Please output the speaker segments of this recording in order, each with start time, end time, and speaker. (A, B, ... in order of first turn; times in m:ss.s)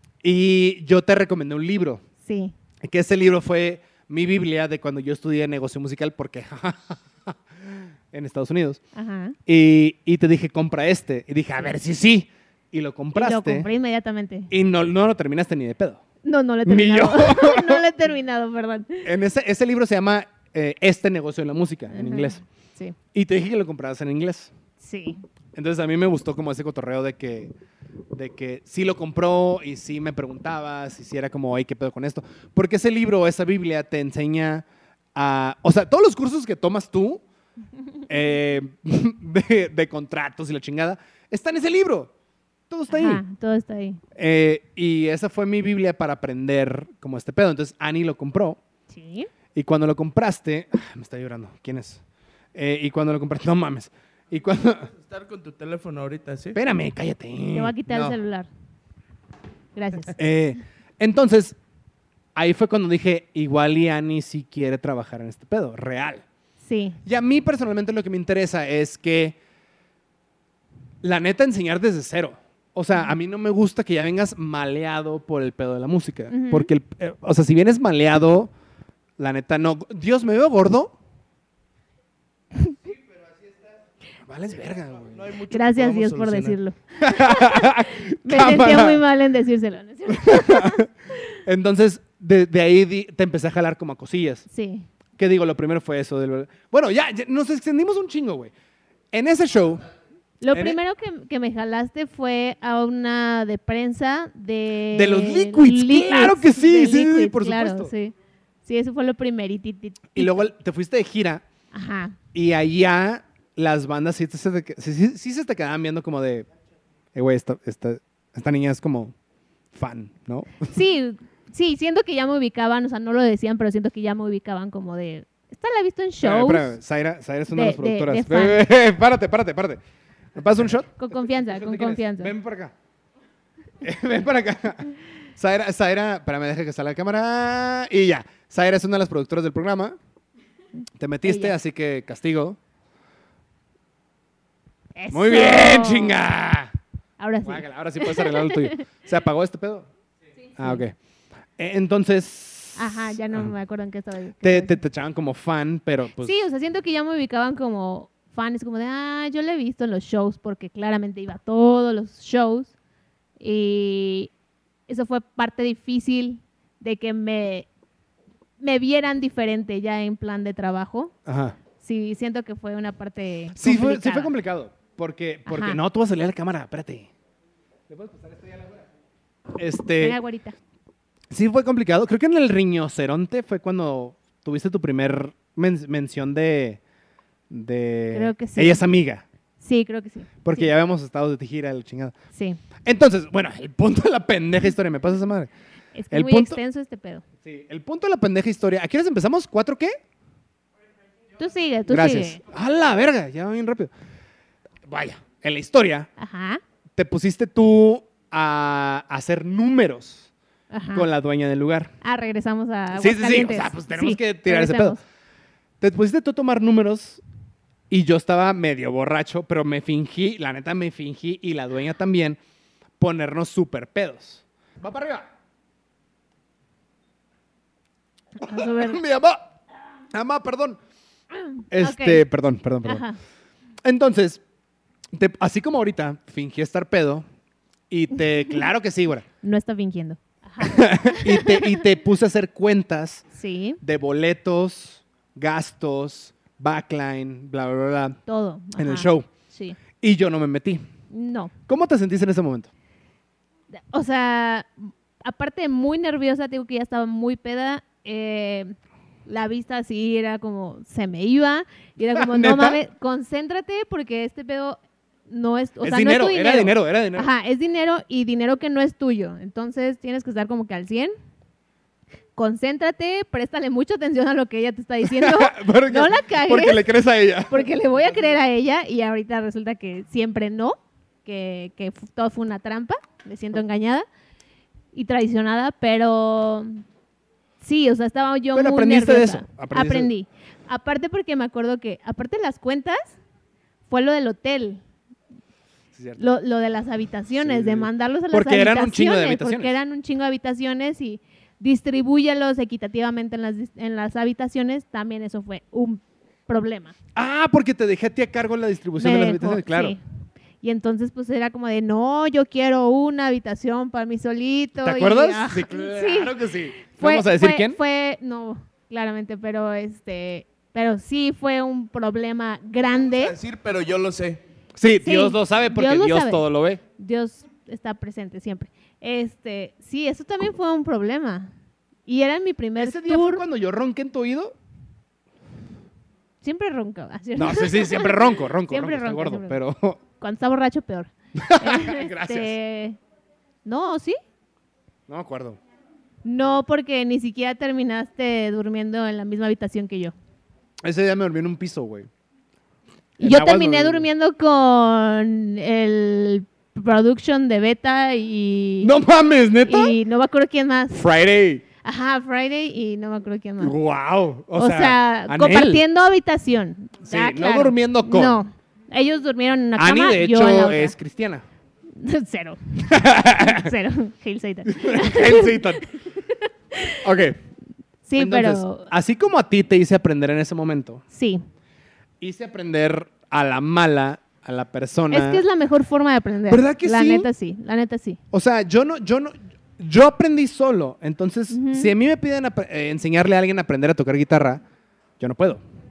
0:00.2-0:02.0 A
0:02.2-0:02.6 B
0:02.8-0:08.8 A
0:09.0-0:09.4 B
0:09.5-0:13.7 A
0:13.1-0:14.5 B
0:14.5-0:16.0 A
0:16.2-0:19.1 B
0:16.7-0:17.8 A
0:19.0-0:22.4 A
0:21.9-0:23.0 B
0:23.1-0:24.5 A
0:24.8-0:25.2 B
0:25.5-0:27.5 A
0:28.1-0:37.2 A
0:38.1-0:42.1 A
0:42.7-0:43.2 A
0:42.9-0:44.0 B
0:44.2-0:48.6 A
0:48.9-0:49.3 B
0:49.6-0:52.0 A
0:52.6-0:54.9 A
0:55.0-0:56.6 C
0:56.6-0:58.2 A
0:57.5-0:58.5 B
0:59.8-1:00.2 B
1:00.2-1:01.6 A
1:02.4-1:06.2 A
1:06.6-1:07.0 B
1:07.0-1:09.4 A
1:11.0-1:18.5 A
1:16.3-1:16.7 B
1:19.2-1:20.9 A
1:24.3-1:25.3 A
1:25.2-1:26.6 C
1:25.5-1:27.7 B
1:27.0-1:29.0 A
1:28.2-1:30.8 B
1:30.1-1:30.9 A
1:31.4-1:34.5 A
1:34.5-1:34.9 B
1:35.2-1:38.5 A
1:39.1-1:39.9 A
1:40.4-1:50.4 B
1:40.5-1:40.8 A
1:44.9-1:47.9 A
1:50.2-1:51.4 A
1:51.7-1:52.2 B
1:52.3-1:56.5 A
1:57.2-1:59.1 A
1:59.7-2:00.7 A
2:00.7-2:06.8 B
2:06.2-2:09.8 A
2:07.5-2:08.6 B
2:10.4-2:12.7 A
2:11.0-2:12.3 B
2:13.8-2:20.0 A
2:21.0-2:22.6 A
2:21.2-2:21.6 B
2:25.0-2:26.2 B
2:25.1-2:26.7 A
2:27.2-2:28.8 B
2:27.4-2:29.9 A
2:30.6-2:31.0 A
2:31.6-2:33.5 A
2:32.8-2:34.8 B
2:34.4-2:36.4 A
2:36.2-2:42.7 B
2:43.4-2:44.3 B
2:44.9-2:47.7 B
2:48.6-2:51.1 B
2:51.3-2:51.6 A
2:51.8-2:54.3 B
2:53.6-2:57.1 A
2:55.5-2:55.8 B
2:57.9-2:58.9 A
2:59.6-3:00.2 A
3:00.0-3:00.6 B
3:01.3-3:06.8 A
3:07.5-3:09.2 A
3:08.1-3:08.8 B
3:09.6-3:10.7 B
3:10.4-3:12.2 A
3:12.3-3:12.6 B
3:12.8-3:15.5 A
3:16.0-3:17.2 B
3:16.1-3:16.6 A
3:17.4-3:20.0 A
3:21.4-3:22.4 B
3:21.9-3:23.9 A
3:24.8-3:26.1 A
3:26.2-3:26.6 B
3:27.0-3:30.3 A
3:30.7-3:31.1 B
3:30.9-3:31.9 A
3:32.0-3:35.0 B
3:32.9-3:35.0 A
3:35.8-3:37.2 A
3:37.9-3:42.4 A
3:43.0-3:45.3 A
3:48.4-3:49.0 B
3:48.4-3:49.5 A
3:50.1-3:50.8 A
3:51.6-3:52.2 B
3:51.7-3:53.0 A
3:52.8-3:53.2 B
3:53.8-3:54.4 A
3:55.1-3:57.3 A
3:57.9-3:59.2 A
3:59.4-4:01.8 B
4:00.6-4:03.2 A
4:03.3-4:03.8 B
4:03.8-4:08.2 A
4:08.3-4:09.8 B
4:08.8-4:09.3 A
4:10.0-4:10.8 A
4:11.1-4:11.5 B
4:11.7-4:12.7 A
4:13.9-4:18.7 B
4:19.3-4:24.8 B
4:22.1-4:22.8 A
4:25.3-4:31.1 B
4:25.8-4:27.3 A
4:32.4-4:36.9 B
4:35.0-4:37.7 A
4:37.5-4:44.0 B
4:44.9-4:46.8 B
4:47.6-4:53.2 B
4:48.5-4:50.1 A
4:53.9-4:54.8 B
4:55.9-4:56.2 A
4:56.2-5:07.0 B
4:57.4-4:59.8 A
5:07.2-5:10.0 A
5:09.0-5:10.0 B
5:10.6-5:23.4 B
5:14.8-5:17.8 A
5:23.1-5:24.4 C
5:24.8-5:26.8 A
5:25.0-5:26.4 B
5:27.0-5:31.5 B
5:32.1-5:33.4 B
5:32.8-5:34.6 A
5:36.4-5:39.6 B
5:37.4-5:40.0 A
5:40.2-5:43.0 B
5:41.4-5:42.6 A
5:43.6-5:44.2 B
5:45.1-5:45.6 A
5:46.2-5:50.1 B
5:50.8-5:52.1 A
5:53.2-5:54.1 A
5:53.2-5:58.9 B
5:58.8-6:00.0 A
5:59.6-6:01.0 B
6:00.9-6:01.6 A
6:01.8-6:03.8 B
6:03.6-6:05.8 A
6:04.6-6:10.9 B
6:07.0-6:08.4 A
6:09.8-6:11.4 A
6:12.0-6:17.0 B
6:12.8-6:13.7 A
6:14.7-6:15.9 A
6:17.0-6:17.4 A
6:18.1-6:18.9 B
6:18.2-6:21.0 A
6:21.1-6:21.4 B
6:22.2-6:25.4 A
6:25.1-6:28.2 B
6:26.5-6:27.3 A
6:28.3-6:34.6 A
6:31.5-6:31.9 B
6:35.2-6:35.6 A